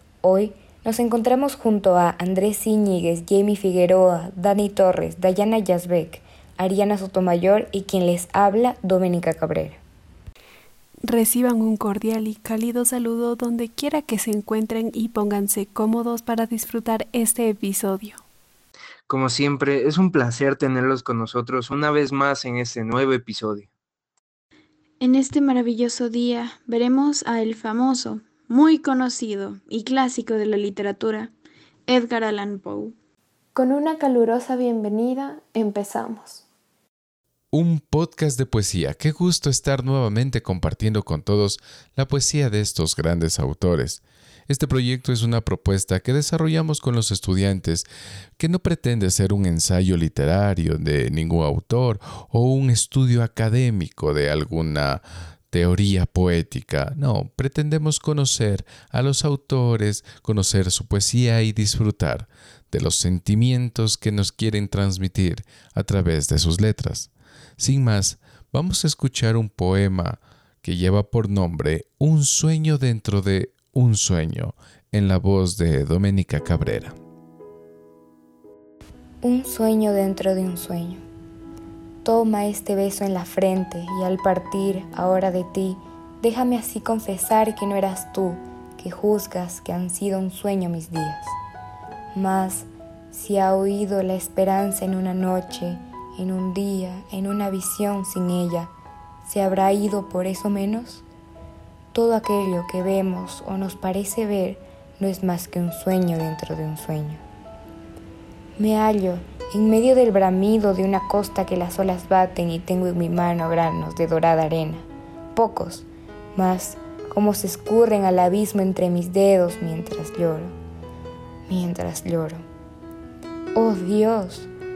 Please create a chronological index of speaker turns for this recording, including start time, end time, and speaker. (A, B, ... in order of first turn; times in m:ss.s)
0:00.2-0:09.8 A
0:11.0-0:18.2 B
0:19.1-0:23.7 C
0:25.0-0:31.3 D
0:31.9-0:32.9 D
0:33.5-0:36.4 E
0:37.5-0:47.9 F
0:48.4-1:17.0 F
1:19.2-1:21.0 A
1:22.0-1:31.3 A
1:32.1-1:38.7 A
1:39.2-1:41.0 A
1:41.9-1:47.2 A
1:48.6-2:00.6 A
2:01.5-2:02.4 A
2:03.5-2:04.5 A